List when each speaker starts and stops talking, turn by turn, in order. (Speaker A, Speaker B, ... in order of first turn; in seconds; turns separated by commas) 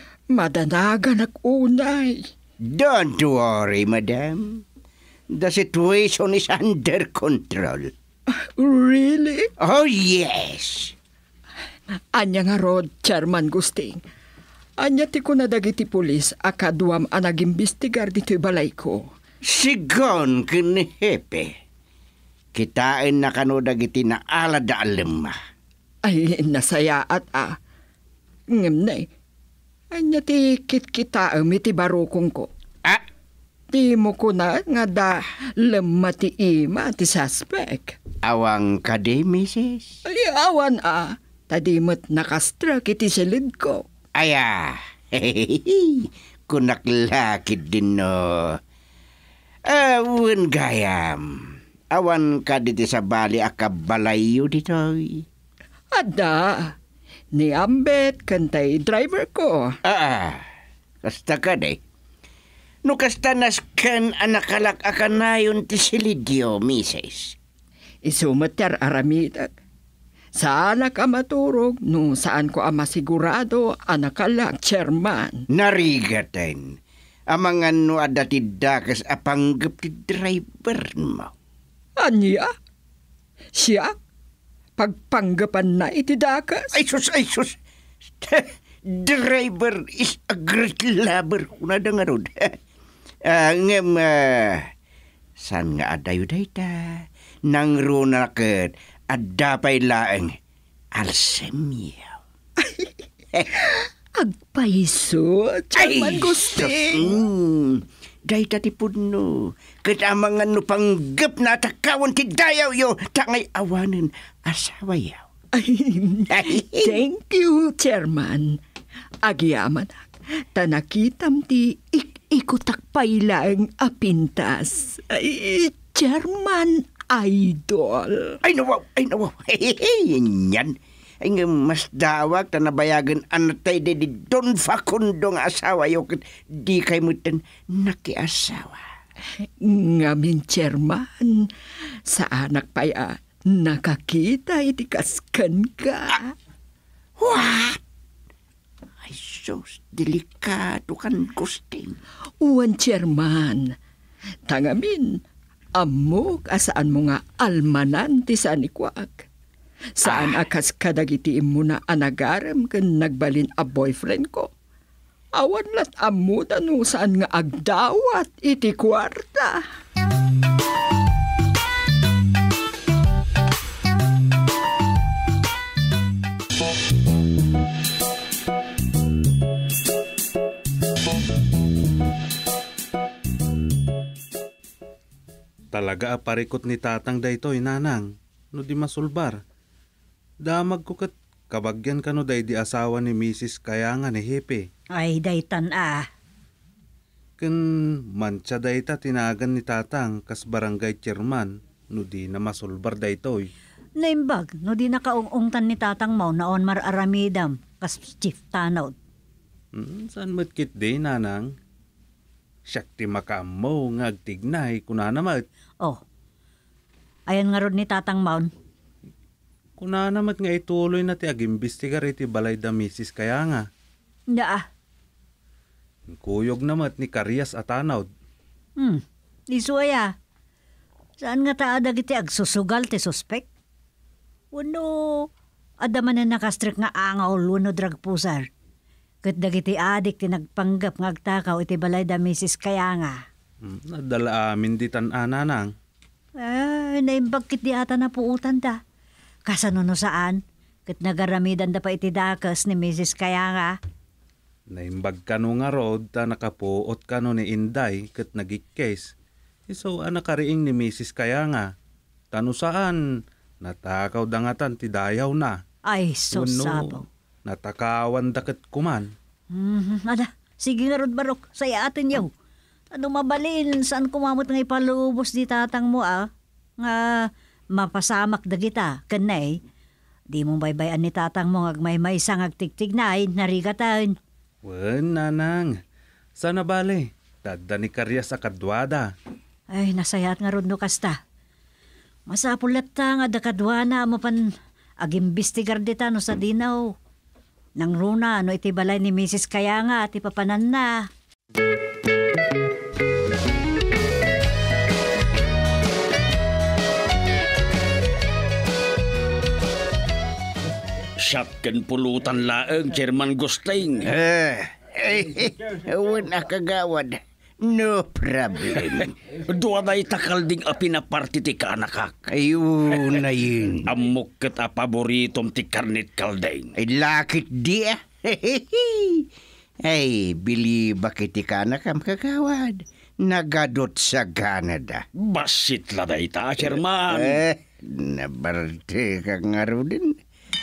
Speaker A: 0.3-2.2, Speaker B: 2.6-4.6, Speaker B: 5.3-7.9, Speaker A: 8.3-9.5, Speaker B: 9.6-10.9, Speaker A: 12.1-14.0, Speaker A: 14.8-19.0, Speaker B: 19.5-21.5, Speaker B: 22.5-25.4, Speaker A: 26.0-27.6, Speaker A: 28.5-29.1, Speaker A: 29.9-32.5, Speaker A: 33.7-38.0, Speaker B: 38.2-40.0, Speaker A: 40.1-43.8, Speaker B: 44.2-48.6, Speaker B: 49.7-55.2, Speaker A: 55.9-56.8, Speaker A: 57.3-59.8, Speaker B: 59.8-60.4, Speaker B: 61.0-61.8, Speaker B: 62.8-67.4, Speaker A: 68.0-69.5, Speaker A: 70.3-75.4, Speaker B: 75.5-76.8, Speaker B: 77.3-81.3, Speaker A: 82.0-82.5, Speaker A: 83.5-83.9, Speaker A: 84.8-86.7, Speaker B: 86.7-87.6, Speaker B: 88.1-92.6, Speaker B: 93.3-94.7, Speaker B: 95.4-100.3, Speaker B: 101.0-102.2, Speaker A: 102.6-102.9, Speaker A: 103.6-107.1, Speaker B: 105.8-115.2, Speaker A: 115.5-118.6, Speaker B: 116.3-117.0, Speaker A: 119.2-128.4, Speaker B: 128.4-138.9, Speaker A: 139.4-141.5, Speaker A: 142.1-146.3, Speaker B: 147.2-147.8, Speaker B: 149.0-152.0, Speaker A: 152.4-153.6, Speaker A: 154.5-155.2, Speaker A: 155.8-159.3, Speaker A: 160.0-164.5, Speaker B: 160.0-160.5, Speaker A: 165.4-169.6, Speaker C: 185.7-189.4, Speaker C: 190.4-194.6, Speaker D: 194.9-196.1, Speaker C: 197.4-203.5, Speaker D: 204.0-208.9, Speaker C: 209.7-211.5, Speaker C: 212.7-215.4, Speaker D: 217.3-218.5, Speaker C: 219.8-223.7, Speaker D: 224.3-224.7, Speaker C: 226.1-228.1, Speaker D: 228.8-230.1, Speaker D: 231.2-233.5, Speaker D: 234.5-235.3, Speaker D: 235.8-238.5, Speaker D: 239.2-243.2, Speaker C: 243.6-245.7, Speaker D: 246.4-248.8, Speaker D: 249.5-253.8, Speaker C: 254.7-259.1, Speaker C: 259.7-261.7, Speaker C: 262.3-263.0, Speaker C: 263.6-265.6, Speaker D: 265.9-267.0, Speaker C: 266.3-269.1, Speaker D: 269.5-272.3, Speaker D: 272.9-279.6, Speaker D: 280.3-284.2, Speaker C: 284.6-285.8, Speaker C: 286.4-289.1, Speaker D: 289.7-291.2, Speaker D: 292.3-294.5, Speaker D: 295.0-296.9, Speaker D: 297.8-301.1, Speaker E: 311.2-314.1, Speaker B: 314.0-319.1, Speaker E: 319.3-322.2, Speaker B: 322.3-323.9, Speaker E: 323.9-326.7, Speaker B: 326.8-329.3, Speaker B: 329.8-335.0, Speaker E: 335.2-337.4, Speaker B: 337.1-340.2